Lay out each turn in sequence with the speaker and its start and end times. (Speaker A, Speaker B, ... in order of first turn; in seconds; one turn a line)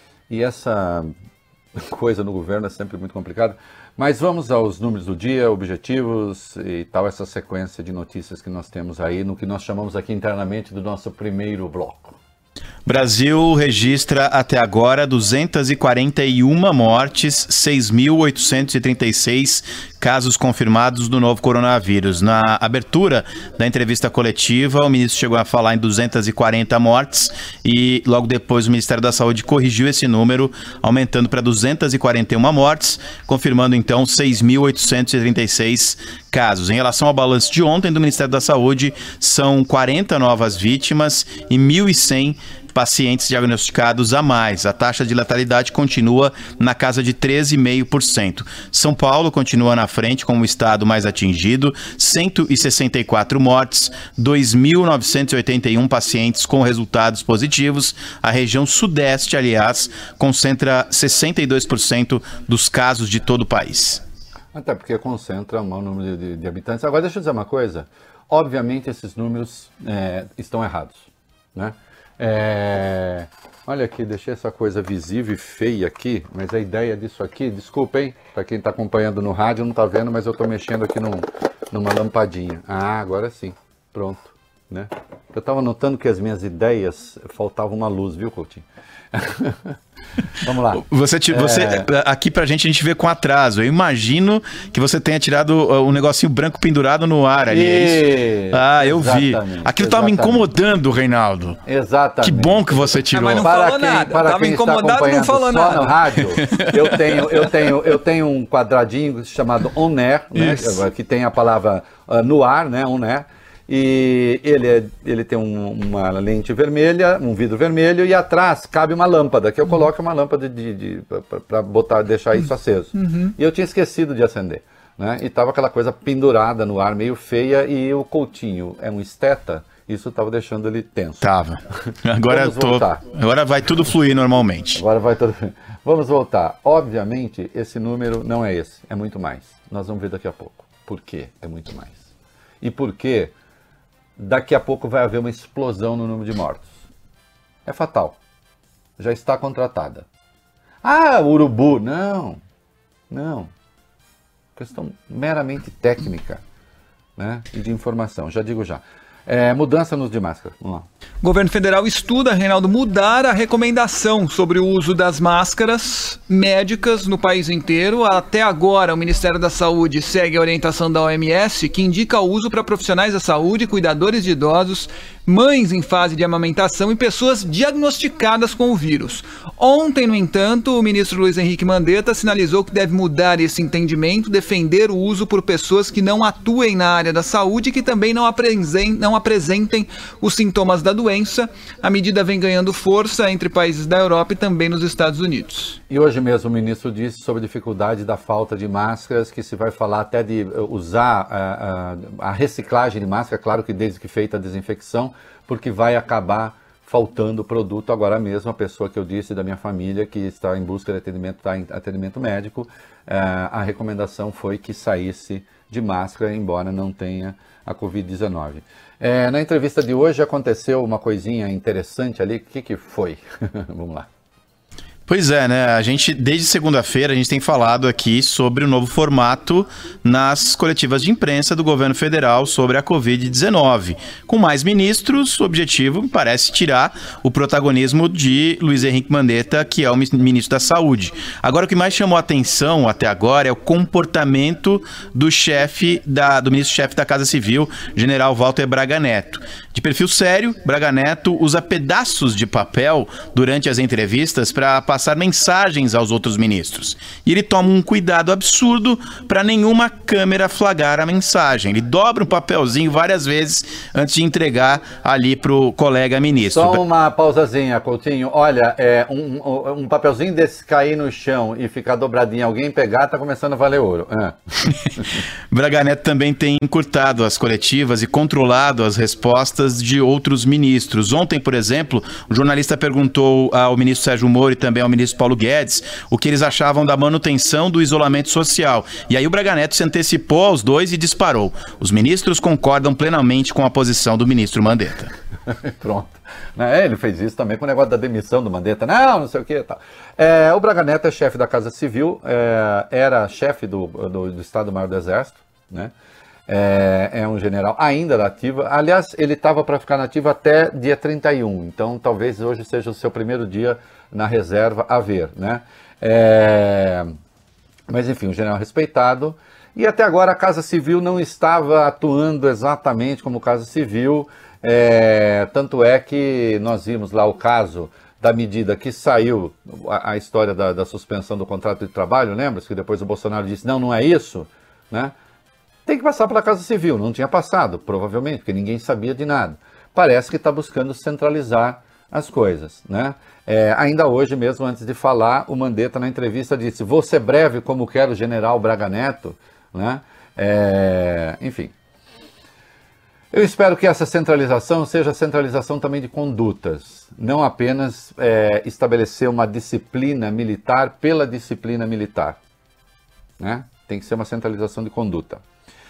Speaker A: 0.3-1.1
Speaker A: 1.8-12.2
Speaker B: 12.8-64.0
Speaker A: 64.5-89.8
Speaker A: 90.4-91.9
Speaker B: 90.8-101.6
Speaker A: 97.5-100.5
Speaker A: 101.6-131.8
Speaker B: 102.2-103.5
Speaker C: 103.1-106.0
Speaker C: 122.9-123.3
Speaker B: 131.2-134.8
Speaker A: 132.3-133.0
Speaker A: 134.7-142.0
Speaker A: 142.6-143.3
Speaker A: 144.2-146.8
Speaker A: 147.7-148.2
Speaker A: 149.0-150.1
Speaker A: 150.8-152.4
Speaker A: 153.1-153.5
Speaker A: 154.6-156.4
Speaker A: 157.2-160.9
Speaker C: 161.2-195.8
Speaker A: 195.9-224.1
Speaker B: 225.1-266.8
Speaker A: 266.4-274.4
Speaker B: 275.5-295.1
Speaker A: 295.5-305.9
Speaker A: 306.5-317.1
Speaker A: 317.9-335.1
Speaker A: 335.9-351.7
Speaker A: 353.3-362.4
Speaker A: 363.4-365.4